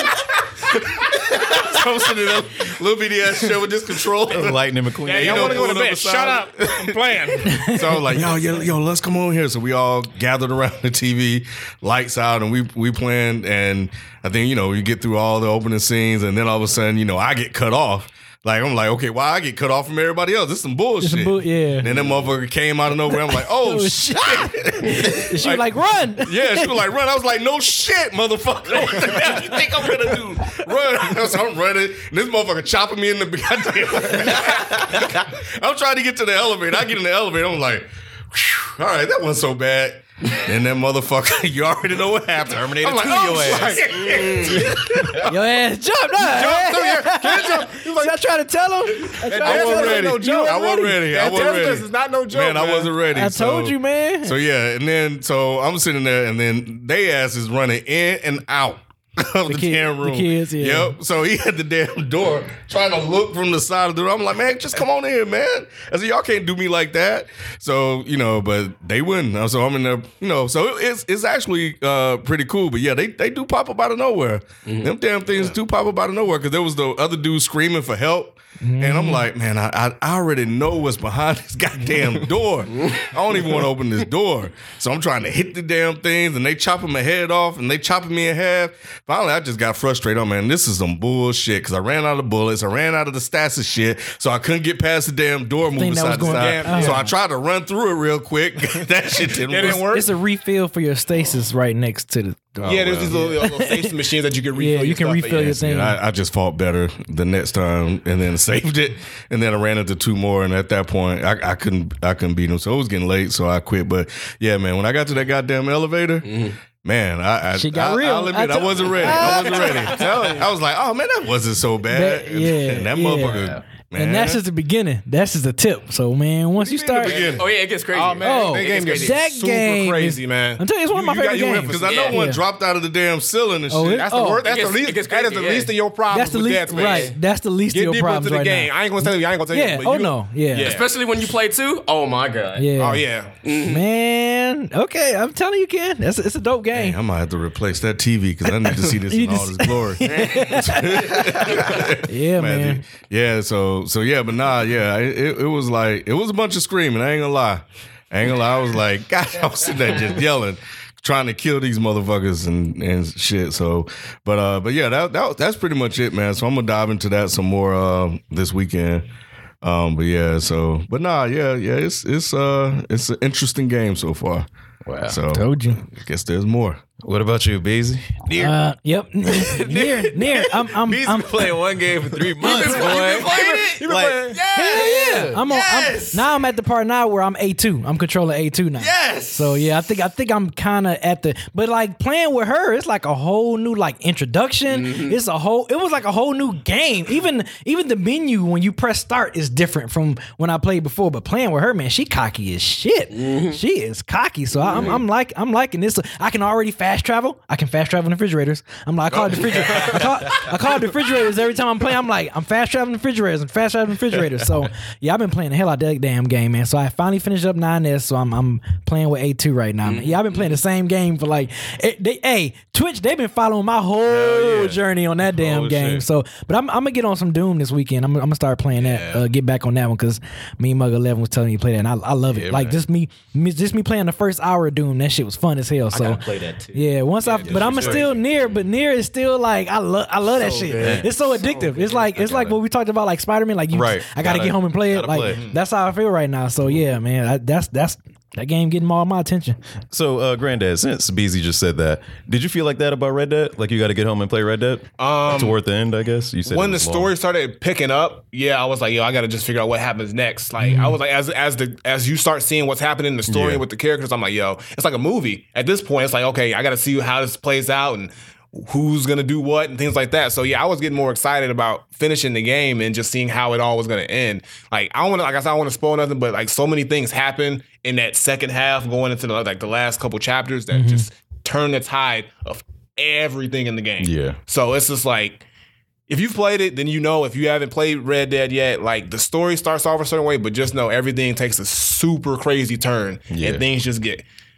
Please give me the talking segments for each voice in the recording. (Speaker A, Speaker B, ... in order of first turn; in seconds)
Speaker A: 1.3-42.8, 44.5-45.4, 49.4-99.8, 102.6-103.3, 105.5-124.4, 126.6-127.5, 131.3-134.1, 146.7-169.1, 169.6-174.5, 175.1-176.8
Speaker B: 4.3-5.8, 42.5-43.9, 174.8-175.2, 177.0-178.6, 179.3-186.3, 188.8-189.8, 224.1-224.8, 225.3-226.1, 232.3-232.8, 237.4-238.1, 240.7-241.4, 242.0-242.6, 243.7-245.4, 249.9-257.1, 263.3-263.6, 284.0-284.4, 293.3-293.6
Speaker C: 5.0-7.8, 42.8-45.2, 46.2-48.2, 49.2-52.9, 96.3-97.1, 99.3-100.1, 102.7-105.6, 127.1-132.2, 133.9-137.1, 137.7-140.9, 142.8-143.4, 182.5-184.4, 237.3-238.1, 245.2-245.6, 255.0-255.6, 256.5-285.4, 286.1-294.2
Speaker D: 21.0-21.9, 23.1-26.8, 45.2-51.6, 53.1-54.4, 59.5-61.0, 78.6-79.3, 95.8-97.1, 99.6-103.9, 104.5-106.0, 117.5-120.1, 121.9-127.2, 128.2-132.4, 133.7-134.4, 136.1-140.8, 142.6-147.0, 148.6-152.8, 175.3-175.8, 178.4-181.6, 182.4-182.8, 184.6-249.6, 260.6-261.0, 280.7-281.1
Speaker E: 43.9-44.7, 74.7-74.9, 116.2-116.6, 119.6-119.9, 127.1-129.2, 131.9-132.2, 134.4-135.8, 136.7-137.2, 140.6-142.8, 143.4-143.8, 150.1-150.4, 182.4-183.8, 184.4-185.6, 194.7-195.2, 203.1-203.6, 204.7-205.0, 219.8-220.6, 235.9-238.2, 240.4-242.0